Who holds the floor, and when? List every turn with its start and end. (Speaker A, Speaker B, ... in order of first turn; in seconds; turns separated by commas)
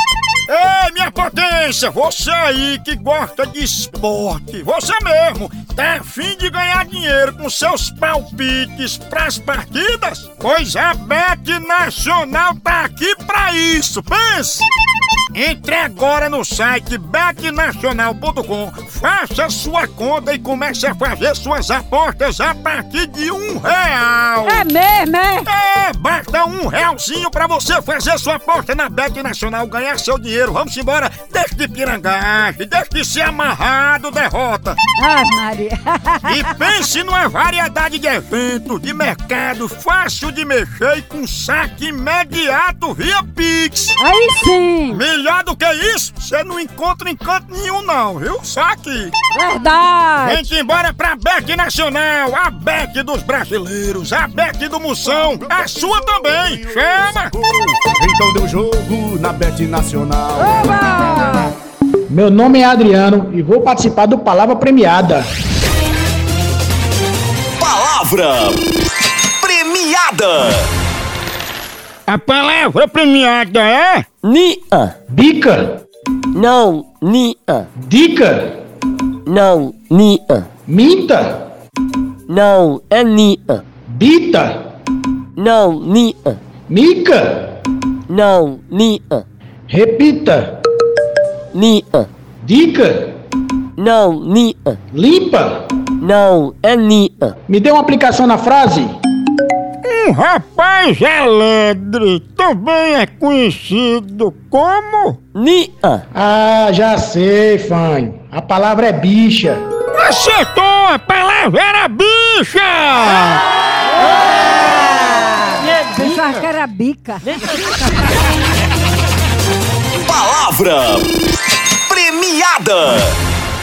Speaker A: 0.5-14.7, Speaker A: 15.3-24.6, Speaker B: 24.4-25.5, Speaker A: 25.4-34.8, Speaker B: 35.0-36.8, Speaker A: 36.3-44.0, Speaker B: 44.0-45.0, Speaker A: 44.9-49.1, Speaker B: 49.3-50.5, Speaker A: 50.2-57.3, Speaker C: 55.1-60.8, Speaker B: 60.4-61.5, Speaker D: 62.1-65.3, Speaker E: 67.6-68.6, Speaker E: 69.4-70.7, Speaker A: 72.1-74.1, Speaker F: 74.2-74.9, Speaker D: 75.1-75.7, Speaker F: 76.3-77.7, Speaker D: 77.8-78.5, Speaker F: 79.3-80.5, Speaker D: 80.7-81.3, Speaker F: 82.3-83.6, Speaker D: 83.9-84.6, Speaker F: 85.4-86.4, Speaker D: 86.7-87.5, Speaker F: 88.1-89.2, Speaker D: 89.7-90.5, Speaker F: 91.5-92.1, Speaker D: 92.4-93.1, Speaker F: 93.8-94.8, Speaker D: 94.9-95.5, Speaker F: 96.0-97.4, Speaker D: 97.5-98.9, Speaker A: 99.8-105.2, Speaker F: 105.3-106.0, Speaker D: 106.1-109.6, Speaker A: 109.9-113.4, Speaker B: 114.4-118.1, Speaker E: 120.0-121.1, Speaker E: 121.8-123.2